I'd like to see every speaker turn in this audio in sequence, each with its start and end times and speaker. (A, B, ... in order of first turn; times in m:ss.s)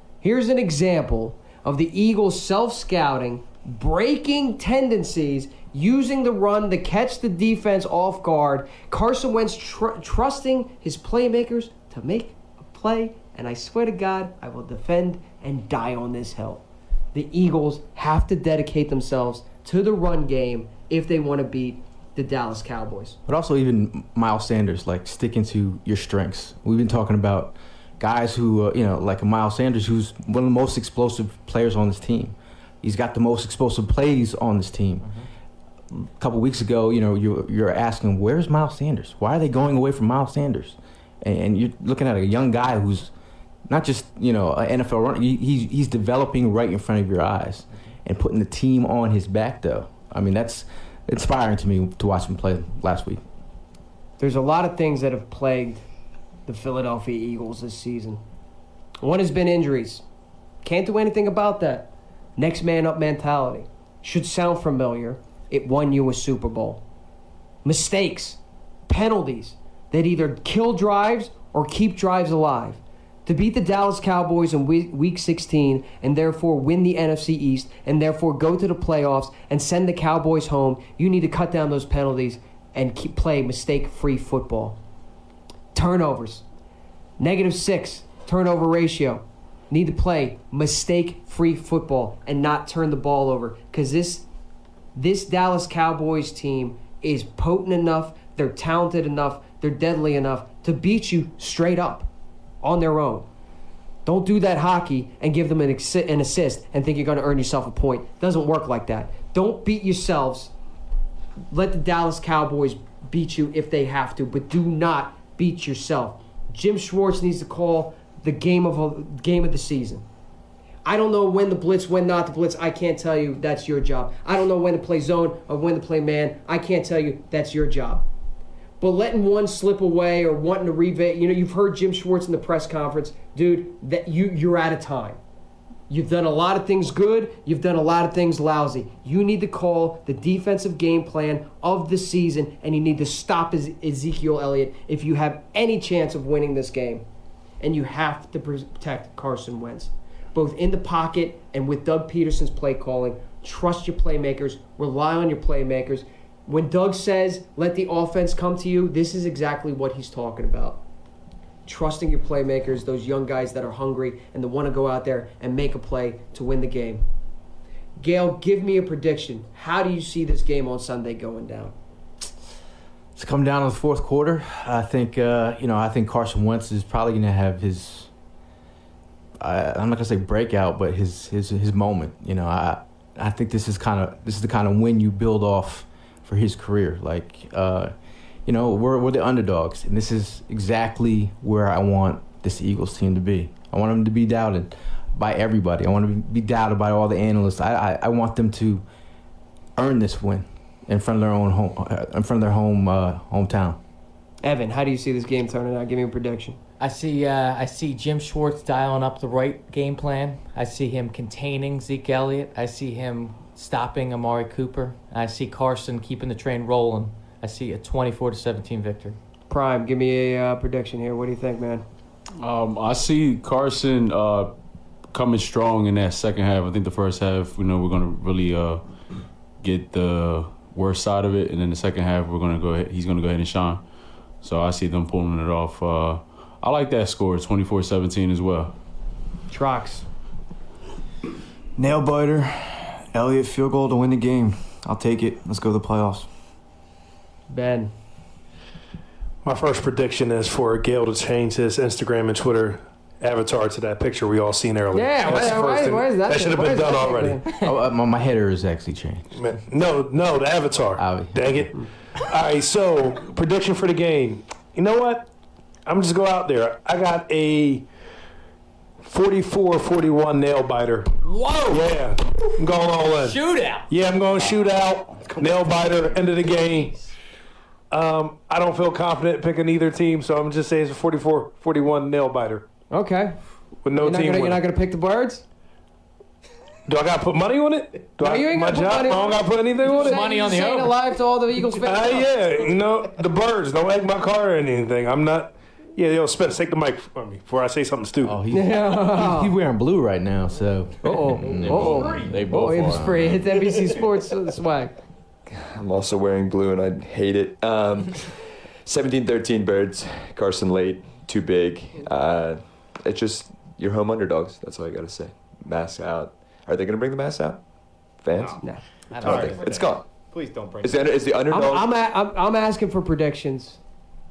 0:00.2-0:16.6 A
0:17.1-0:23.2 A
0:23.3-0:35.1 B
0:35.9-0:43.1 B
0:43.7-0:53.2 B
0:54.2-0:55.8 A
0:56.5-0:58.2 A
0:59.0-1:00.0 A
1:00.6-1:06.8 A
1:07.6-1:24.8 A
1:25.7-1:26.4 A
1:27.2-1:34.2 A
1:34.9-1:42.1 A
1:42.6-1:43.2 A
1:44.0-1:50.5 A
1:51.5-2:00.0 A
2:00.8-2:08.0 A
2:08.8-2:15.2 A
2:15.9-2:27.0 A
2:27.6-2:40.8 A
2:41.6-2:47.0 A
2:48.0-2:51.7 A
2:53.1-2:58.1 B
2:59.4-3:07.9 B
3:08.4-3:18.8 B
3:19.8-3:23.8 B
3:24.4-3:26.6 A
3:26.8-3:39.2 C
3:39.5-3:41.8 A
3:42.4-3:44.5 D
3:45.1-3:48.8 D
3:49.6-3:53.8 D
3:54.4-3:58.7 D
3:59.5-4:00.0 A
4:01.8-4:06.3 E
4:07.5-4:07.9 A
4:09.4-4:17.4 F
4:14.9-4:17.4 A
4:17.6-4:19.3 B
4:19.3-4:21.7 F
4:21.0-4:21.7 B
4:22.3-4:25.3 F
4:25.8-4:27.8 F
4:29.0-4:33.4 F
4:31.2-4:31.8 A
4:33.1-4:33.9 C
4:33.9-4:37.0 F
4:37.9-4:42.6 F
4:42.9-4:43.4 A
4:43.8-4:44.6 F
4:44.0-4:45.4 A
4:46.9-4:50.3 F
4:48.2-4:52.3 A
4:49.8-4:50.9 C
4:51.8-4:58.4 F
4:58.2-5:03.2 B
4:58.5-4:59.5 A
5:01.0-5:04.9 A
5:01.6-5:03.4 D
5:05.5-5:17.6 G
5:18.2-5:18.6 G
5:19.1-5:19.7 C
5:19.2-5:20.1 G
5:19.2-5:21.1 E
5:20.8-5:21.9 G
5:21.5-5:23.8 A